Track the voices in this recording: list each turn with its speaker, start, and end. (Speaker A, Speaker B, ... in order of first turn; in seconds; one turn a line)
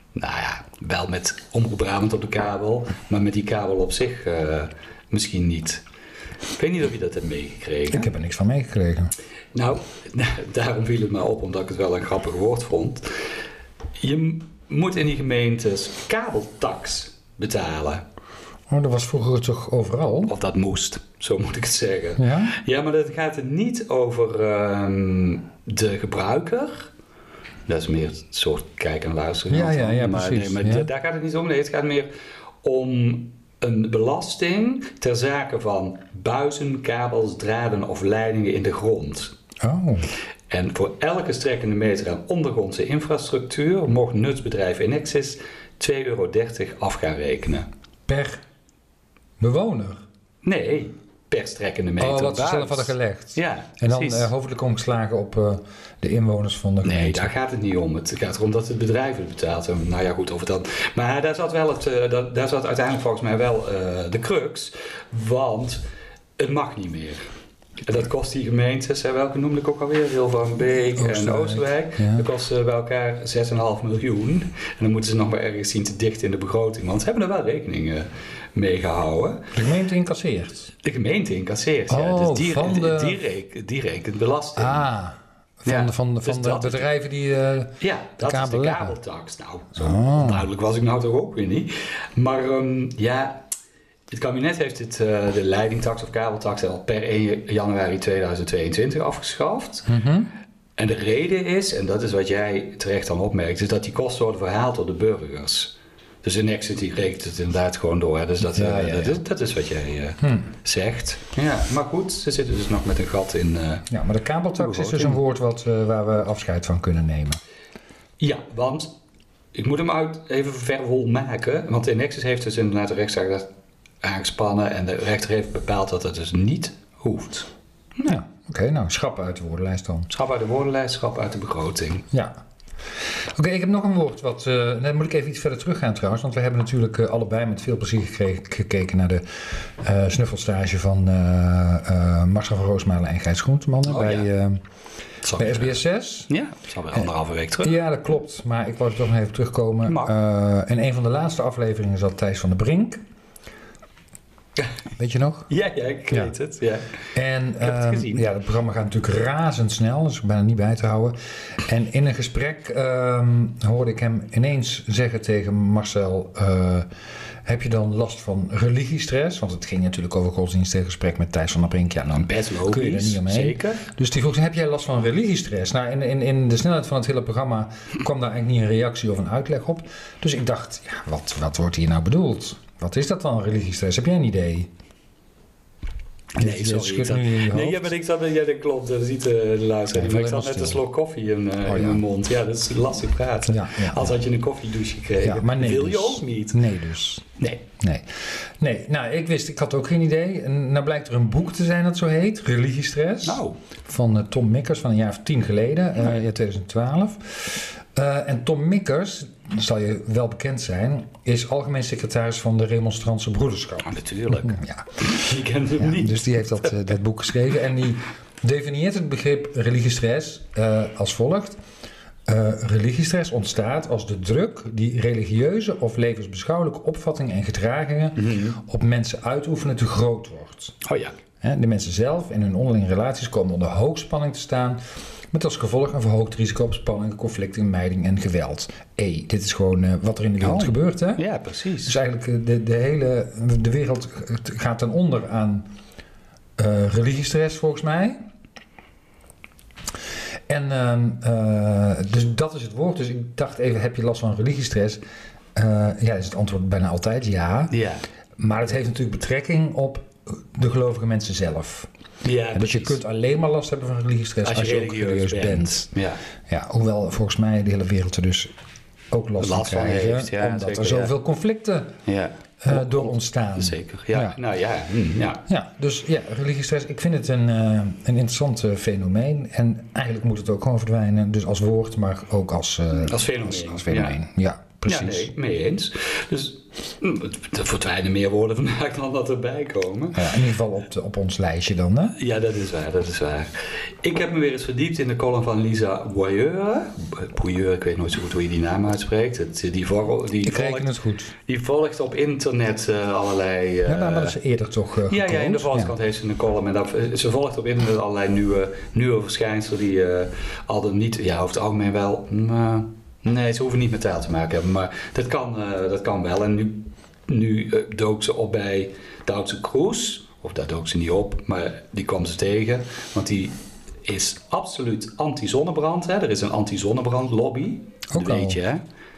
Speaker A: 0.1-5.8
Speaker A: 6.5-8.1
Speaker B: 7.9-9.1
Speaker A: 9.5-13.1
Speaker A: 14.0-18.0
Speaker B: 18.7-20.3
Speaker A: 20.3-26.9
Speaker B: 22.2-22.6
Speaker A: 27.7-32.1
Speaker B: 29.5-30.9
Speaker A: 32.6-39.4
Speaker B: 39.6-40.1
Speaker A: 40.5-47.7
Speaker B: 48.1-48.4
Speaker B: 49.4-50.0
Speaker A: 50.4-54.3
Speaker B: 52.0-57.3
Speaker A: 56.8-65.8
Speaker A: 66.4-67.2
Speaker A: 67.8-79.5
Speaker B: 71.0-72.3
Speaker B: 79.5-80.7
Speaker A: 80.8-84.9
Speaker B: 81.9-83.2
Speaker B: 84.6-89.0
Speaker A: 85.7-86.9
Speaker A: 87.8-93.4
Speaker B: 89.8-90.5
Speaker A: 94.1-99.9
Speaker B: 99.9-100.3
Speaker A: 100.8-113.9
Speaker B: 108.5-109.2
Speaker B: 110.2-110.5
Speaker B: 113.9-117.4
Speaker A: 114.6-115.2
Speaker A: 118.2-118.9
Speaker A: 119.5-123.5
Speaker A: 124.0-128.2
Speaker B: 128.1-130.1
Speaker A: 130.1-132.1
Speaker B: 132.1-132.4
Speaker B: 133.3-144.6
Speaker A: 143.8-144.3
Speaker A: 145.2-145.8
Speaker B: 145.4-146.3
Speaker A: 146.3-147.8
Speaker B: 147.6-153.0
Speaker A: 149.9-150.1
Speaker B: 155.0-155.5
Speaker A: 155.5-156.9
Speaker B: 157.2-166.9
Speaker A: 157.6-158.3
Speaker B: 167.4-184.7
Speaker A: 172.2-173.8
Speaker A: 186.3-196.6
Speaker B: 186.4-187.9
Speaker B: 189.9-190.8
Speaker B: 191.7-192.0
Speaker B: 193.5-194.2
Speaker B: 195.2-197.2
Speaker A: 197.4-197.7
Speaker B: 197.8-221.6
Speaker A: 203.2-203.6
Speaker A: 213.8-216.6
Speaker B: 222.3-230.8
Speaker A: 228.2-228.6
Speaker A: 230.8-231.2
Speaker B: 231.4-234.8
Speaker B: 235.3-241.2
Speaker A: 240.4-242.0
Speaker B: 241.8-245.7
Speaker B: 246.6-248.2
Speaker B: 250.5-255.0
Speaker B: 255.6-257.7
Speaker A: 257.7-258.0
Speaker B: 258.4-261.9
Speaker A: 262.2-263.0
Speaker B: 262.5-265.9
Speaker A: 264.4-266.2
Speaker B: 266.5-268.5
Speaker B: 269.1-272.0
Speaker A: 269.4-271.1
Speaker A: 272.1-275.4
Speaker B: 272.6-274.4
Speaker B: 275.5-285.3
Speaker A: 282.9-284.2
Speaker A: 284.9-290.3
Speaker B: 290.1-292.2
Speaker A: 292.2-300.9
Speaker B: 300.4-301.3
Speaker A: 301.4-304.4
Speaker B: 303.9-305.9
Speaker A: 305.1-328.8
Speaker B: 328.1-328.6